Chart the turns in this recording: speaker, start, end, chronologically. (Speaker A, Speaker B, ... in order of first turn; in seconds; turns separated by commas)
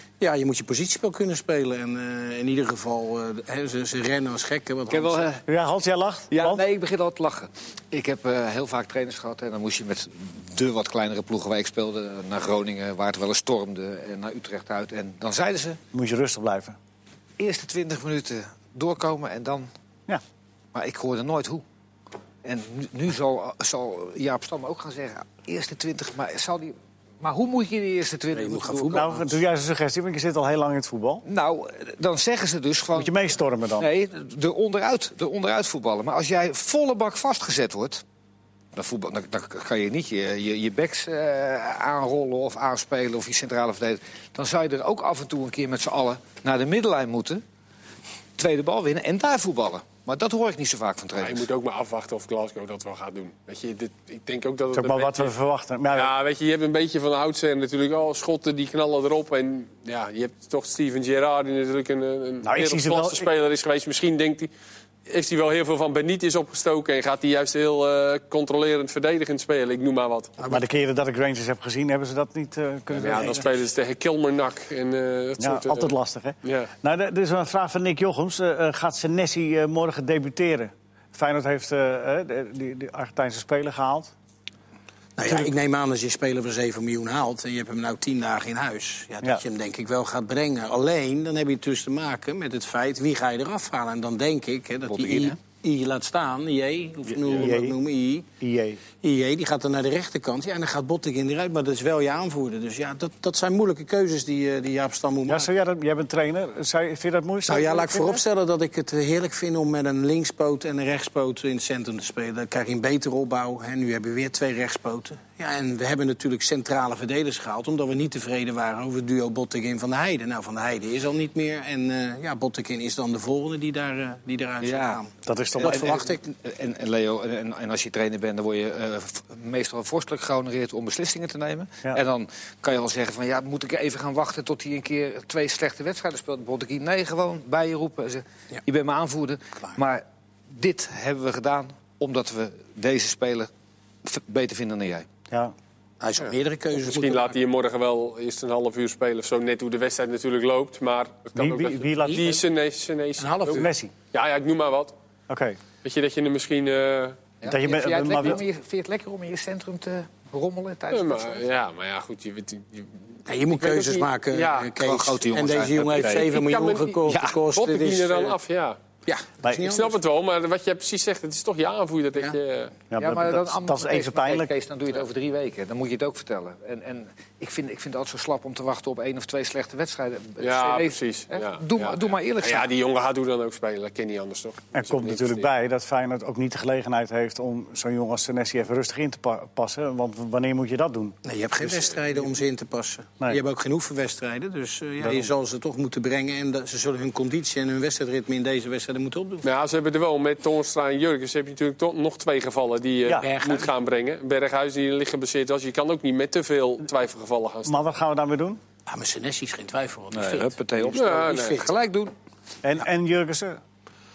Speaker A: 0.2-5.3, Speaker B: 4.9-5.4, Speaker C: 5.5-6.6, Speaker B: 6.3-15.8, Speaker C: 15.9-16.8, Speaker B: 17.4-19.7, Speaker B: 20.7-21.6, Speaker B: 22.4-29.1, Speaker A: 28.3-29.3, Speaker C: 28.9-31.2, Speaker B: 31.2-33.2, Speaker C: 33.0-33.9, Speaker B: 33.8-38.0, Speaker B: 38.7-47.4, Speaker B: 48.4-51.5, Speaker D: 51.2-55.3, Speaker C: 54.7-56.1, Speaker D: 55.9-64.5, Speaker C: 62.4-63.3, Speaker D: 65.0-70.3, Speaker A: 70.4-70.6, Speaker C: 70.5-73.5, Speaker D: 72.9-76.7, Speaker C: 75.4-84.1, Speaker A: 85.2-98.3, Speaker B: 94.9-95.4, Speaker C: 97.1-97.8, Speaker C: 98.4-98.8, Speaker A: 99.0-105.5, Speaker C: 105.3-108.2, Speaker A: 107.5-126.3, Speaker B: 124.6-125.0, Speaker C: 125.2-126.0, Speaker B: 125.6-143.5, Speaker B: 144.0-145.1, Speaker C: 145.3-145.5, Speaker A: 146.0-147.4, Speaker D: 146.7-154.9, Speaker C: 151.3-152.4, Speaker A: 153.2-153.7, Speaker C: 153.5-153.9, Speaker C: 155.3-155.6, Speaker D: 155.8-157.2, Speaker B: 157.4-161.4, Speaker C: 157.5-158.4, Speaker D: 160.9-164.8, Speaker A: 163.3-168.4, Speaker B: 164.8-166.4, Speaker D: 166.0-168.8, Speaker B: 167.1-167.4, Speaker A: 169.1-170.0, Speaker C: 169.4-169.7, Speaker D: 169.6-172.7, Speaker C: 172.9-174.5, Speaker B: 173.0-182.7, Speaker D: 180.4-185.5, Speaker C: 184.7-191.2, Speaker A: 191.2-199.4, Speaker C: 195.0-195.3, Speaker D: 199.4-207.9, Speaker A: 203.1-203.7, Speaker C: 207.7-208.6, Speaker A: 208.9-211.7, Speaker B: 210.1-212.1, Speaker D: 210.9-211.6, Speaker C: 212.6-213.6